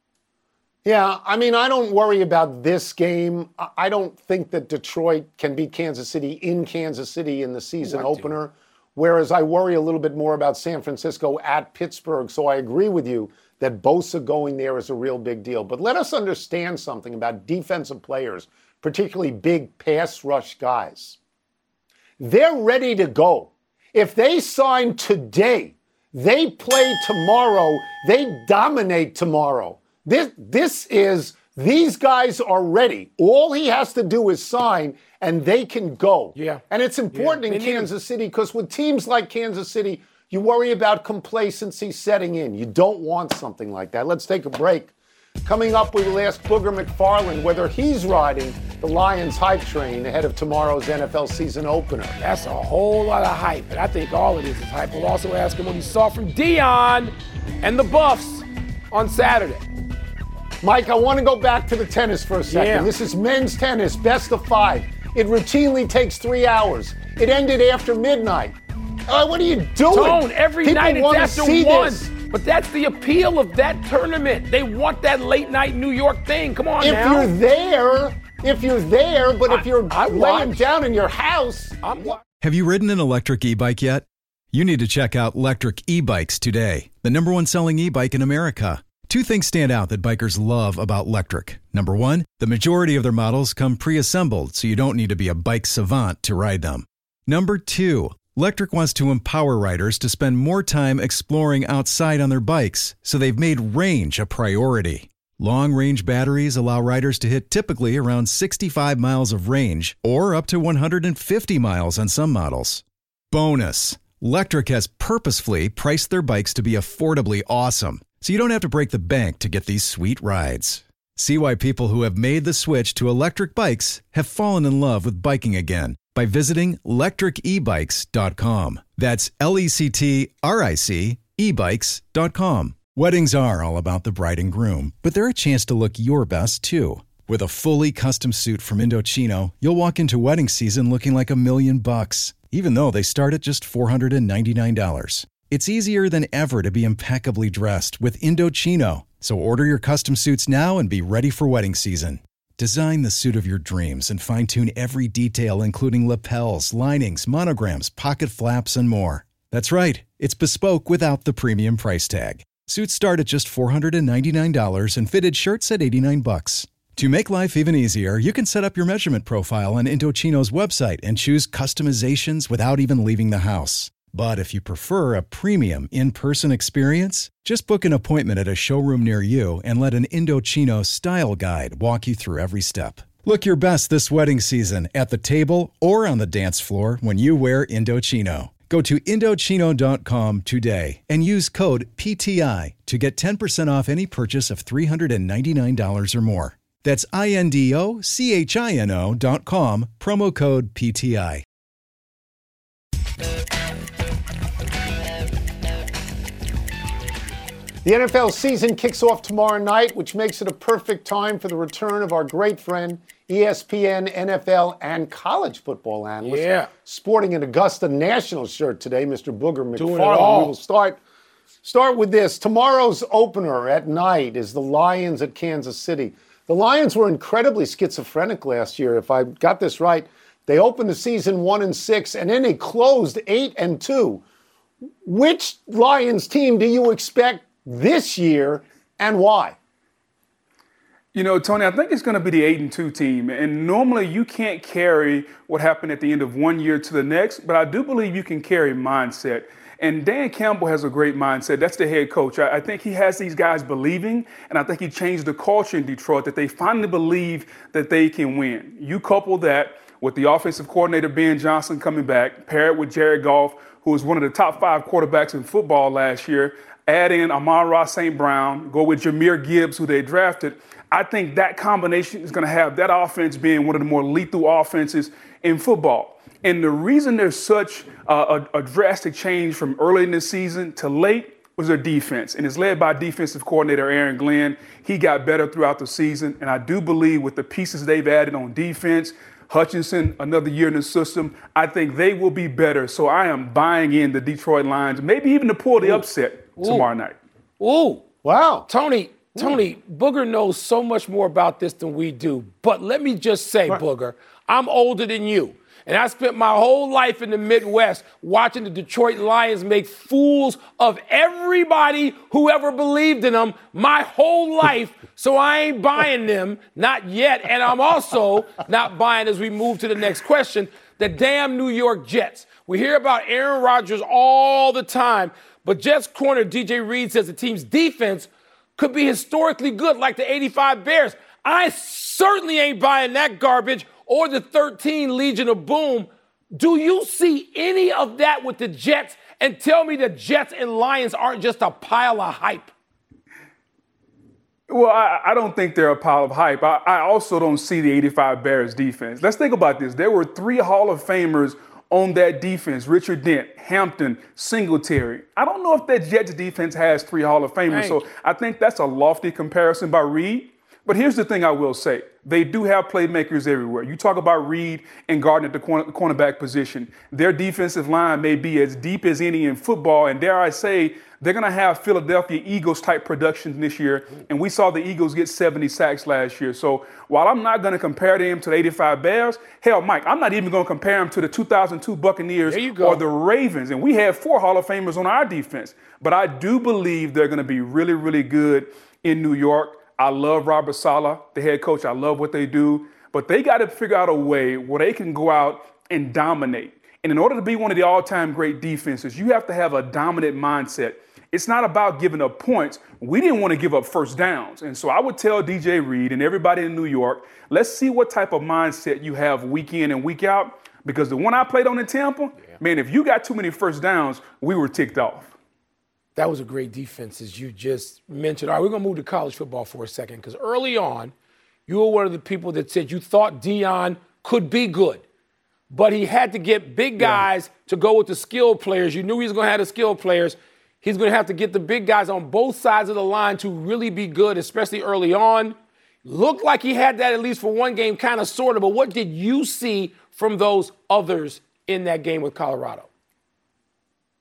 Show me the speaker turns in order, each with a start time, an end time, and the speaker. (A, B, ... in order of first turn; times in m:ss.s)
0:00.8-0:21.2 A
0:07.8-0:08.3 B
0:22.2-0:44.9 A
0:36.4-0:36.6 B
0:37.1-0:37.9 B
0:45.4-0:52.2 A
0:52.2-0:59.6 B
1:00.6-1:08.6 A
1:02.5-1:02.9 B
1:09.1-1:12.1 A
1:09.9-1:17.3 B
1:16.8-1:22.0 A
1:19.5-1:20.6 B
1:21.8-1:22.2 B
1:22.4-3:21.4 C
3:27.8-3:41.0 A
3:36.2-3:36.7 B
3:39.8-3:40.5 B
3:41.6-3:54.2 A
3:55.0-3:59.6 A
4:01.1-4:57.2 D
4:56.6-4:56.9 B
4:57.6-4:58.0 B
4:58.2-4:58.7 A
4:58.7-5:42.7 B
5:44.7-6:55.3 D
5:57.7-5:58.0 B
6:22.5-6:23.0 B
6:56.2-7:01.1 B
7:01.7-7:05.0 B
7:05.7-7:22.9 B
7:07.0-7:07.2 A